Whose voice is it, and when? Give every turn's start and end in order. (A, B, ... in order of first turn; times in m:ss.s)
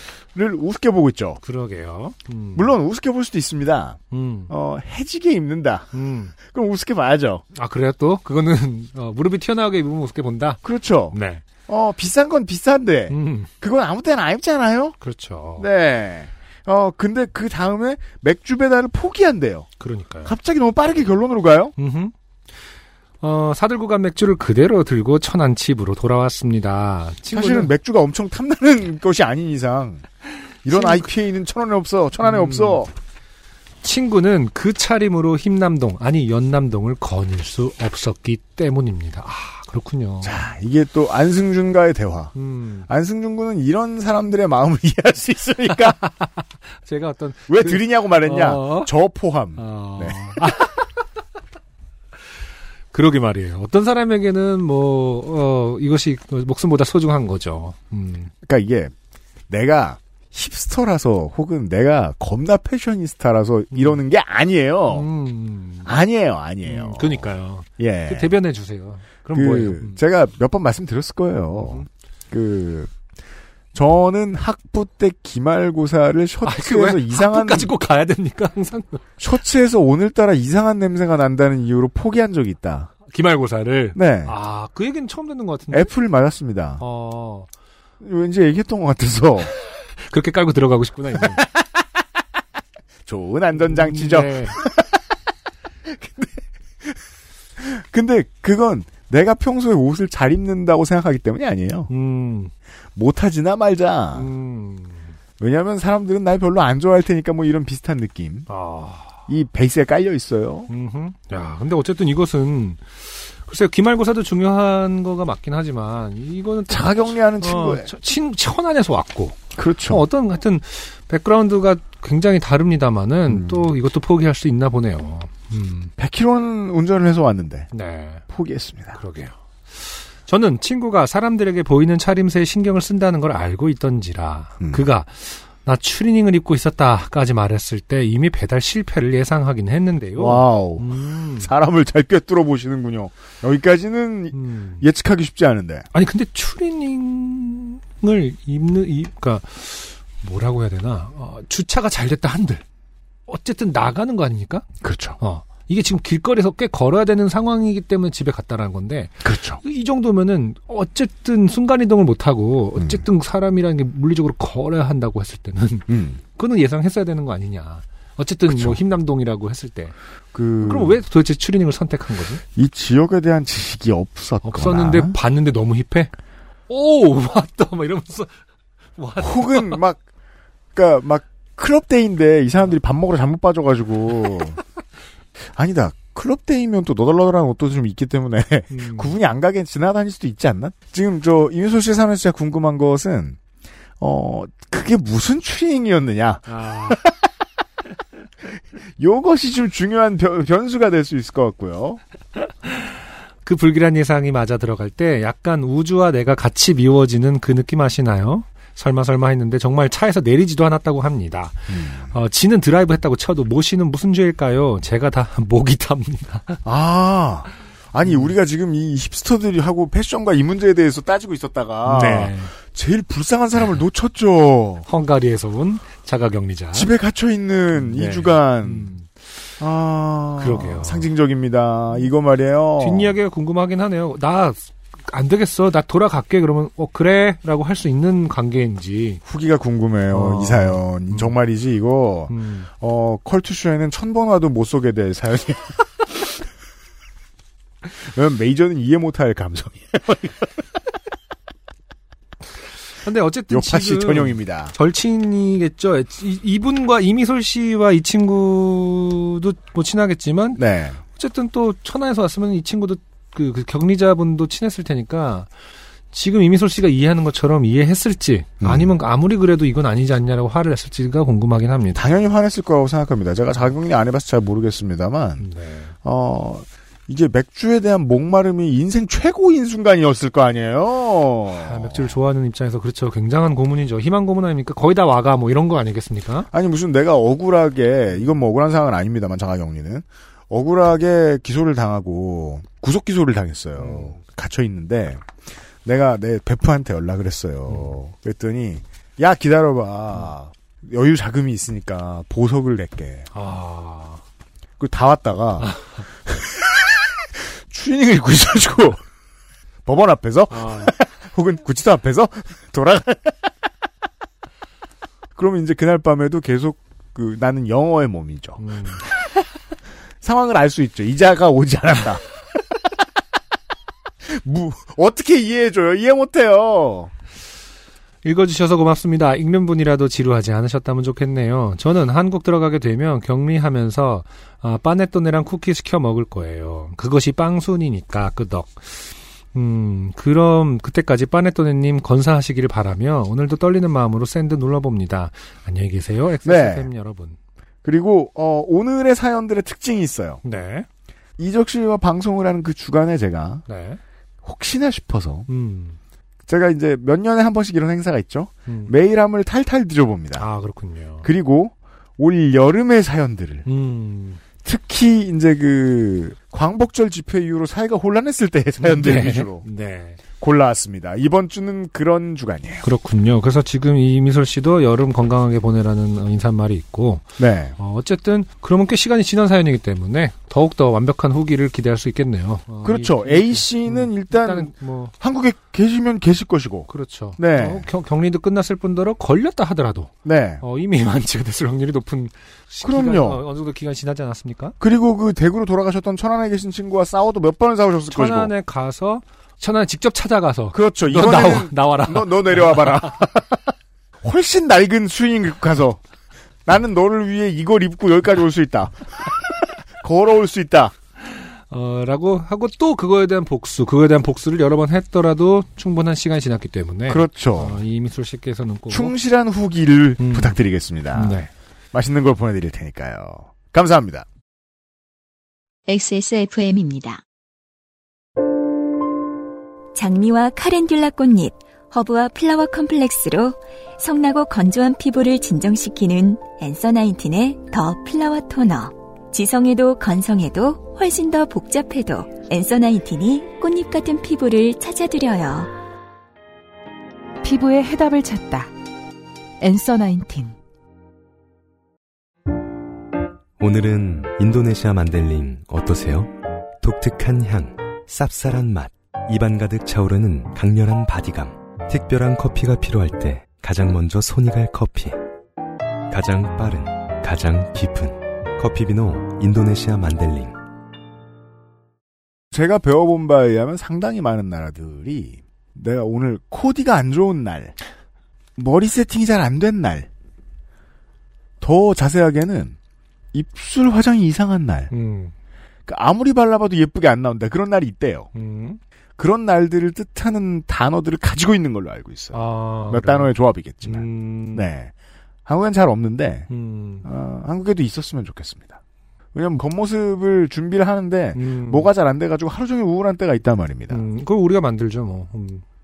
0:00.3-0:01.4 A
0:01.4-0:02.7 B
0:02.6-0:07.4 A
0:04.1-0:04.5 B
0:05.9-0:06.4 B
0:07.5-0:10.6 B
0:10.6-0:11.2 A
0:11.1-0:11.4 B
0:11.7-0:15.0 A
0:13.1-0:13.5 B
0:15.0-0:15.7 B
0:15.6-0:19.7 A
0:19.8-0:20.3 B
0:20.2-0:21.7 A
0:21.8-0:22.1 B
0:23.2-0:27.7 B
0:27.3-0:30.1 A
0:30.6-0:32.9 A
0:30.7-0:31.1 B
0:32.2-0:32.8 B
0:33.8-0:40.4 B
0:40.2-0:42.4 A
0:42.4-0:42.9 B
0:42.9-0:46.0 A
0:45.8-0:48.9 B
0:47.5-0:50.4 A
0:49.6-0:50.9 B
0:52.9-0:58.3 B
0:58.4-0:58.9 A
0:59.5-1:05.1 A
1:03.7-1:04.0 B
1:04.9-1:05.9 B
1:05.8-1:08.3 A
1:06.6-1:10.0 B
1:09.3-1:12.9 A
1:11.5-1:11.8 B
1:13.7-1:17.7 A
1:16.4-1:19.0 B
1:19.2-1:22.9 A
1:23.1-1:25.9 B
1:24.0-1:24.4 A
1:25.7-1:26.8 A
1:26.8-1:27.5 B
1:28.0-1:29.5 A
1:30.0-1:31.5 B
1:33.0-1:35.0 A
1:33.6-1:34.6 B
1:35.8-1:37.0 A
1:37.6-1:41.9 A
1:41.9-1:42.5 B
1:43.0-1:44.3 A
1:44.2-1:45.1 B
1:45.4-1:48.5 A
1:48.5-1:49.2 B
1:49.3-1:50.7 A
1:50.7-2:05.9 B
1:56.7-1:57.9 A
1:59.6-2:00.0 A
2:03.3-2:03.7 A
2:06.0-2:07.7 A
2:07.7-2:08.2 B
2:08.3-2:09.0 A
2:09.0-2:21.5 B
2:14.6-2:14.9 A
2:20.2-2:25.9 A
2:24.3-2:24.8 B
2:25.9-2:32.6 B
2:33.3-2:34.7 B
2:34.8-2:35.2 A
2:35.2-2:50.0 B
2:39.2-2:39.6 A
2:42.8-2:43.0 A
2:45.9-2:46.2 A
2:48.5-2:48.8 A
2:50.3-2:51.0 A
2:50.6-2:52.4 B
2:52.6-2:55.2 A
2:54.4-2:56.1 B
2:56.7-2:58.4 B
2:59.0-2:59.8 B
2:59.2-3:00.0 A
3:00.7-3:04.6 A
3:05.4-3:13.4 A
3:08.7-3:09.2 B
3:14.0-3:17.2 A
3:16.5-3:17.0 B
3:19.0-3:22.0 A
3:23.4-3:36.6 B
3:31.7-3:32.1 A
3:36.6-3:44.9 A
3:38.0-3:38.3 B
3:41.8-3:42.5 B
3:44.9-3:46.9 B
3:46.7-3:48.9 A
3:47.7-3:49.2 B
3:49.6-3:53.2 A
3:50.4-3:51.1 B
3:52.8-3:59.2 B
3:59.2-4:06.3 A
4:00.1-4:01.4 B
4:02.3-4:02.7 B
4:08.0-4:10.6 A
4:13.0-4:20.6 B
4:13.5-4:14.8 A
4:20.6-4:21.0 A
4:21.2-4:25.5 B
4:26.1-4:32.0 B
4:28.6-4:28.9 A
4:32.0-4:35.5 A
4:35.4-4:35.9 B
4:36.0-4:42.1 A
4:41.5-4:46.5 B
4:46.5-4:55.3 A
4:53.8-4:54.2 B
4:55.8-5:03.3 A
5:03.3-5:04.2 B
5:04.8-5:05.7 A
5:05.6-5:06.0 B
5:06.3-5:09.0 A
5:09.9-5:13.5 A
5:10.5-5:10.9 B
5:15.4-5:19.1 A
5:18.6-5:19.0 B
5:20.2-5:22.2 A
5:24.2-5:27.1 A
5:28.2-5:47.4 B
5:46.4-5:46.9 A
5:47.8-5:50.4 A
5:50.4-5:50.9 B
5:51.4-5:53.6 A
5:53.7-5:54.0 B
5:54.4-5:55.5 A
5:55.5-5:56.0 B
5:56.5-6:00.5 A
5:58.7-5:58.9 B
6:00.4-6:01.3 B
6:01.2-6:03.7 A
6:03.7-6:04.4 B
6:04.6-6:09.6 A
6:08.8-6:10.2 B
6:10.4-6:12.9 A
6:12.8-6:17.2 B
6:17.4-6:17.8 A
6:17.8-6:25.1 B
6:22.8-6:27.9 A
6:26.9-6:34.8 B
6:30.2-6:30.6 A
6:32.8-6:33.4 A
6:34.8-6:38.5 A
6:38.1-6:43.1 B
6:40.7-6:46.0 A
6:46.7-6:50.9 A
6:51.4-6:59.2 B
6:57.1-6:57.8 A
6:58.9-7:01.4 A
7:00.2-7:00.6 B
7:01.1-7:01.5 B
7:01.9-7:04.3 A
7:05.9-7:07.2 C
7:10.0-7:25.7 C
7:27.4-7:28.7 D
7:29.6-7:30.6 D
7:33.6-7:45.2 E
7:46.1-7:50.6 E
7:52.5-7:57.8 A
7:58.6-8:00.1 A
8:01.6-8:02.8 A
8:03.3-8:04.9 A
8:04.9-8:05.3 B
8:05.9-8:08.3 A
8:08.3-8:08.8 B
8:09.2-8:14.9 A
8:12.3-8:13.3 B
8:13.8-8:14.7 B
8:15.5-8:16.5 A
8:16.5-8:17.1 B
8:17.0-8:18.8 A
8:19.3-8:24.0 A
8:21.4-8:21.9 B
8:23.9-8:25.6 B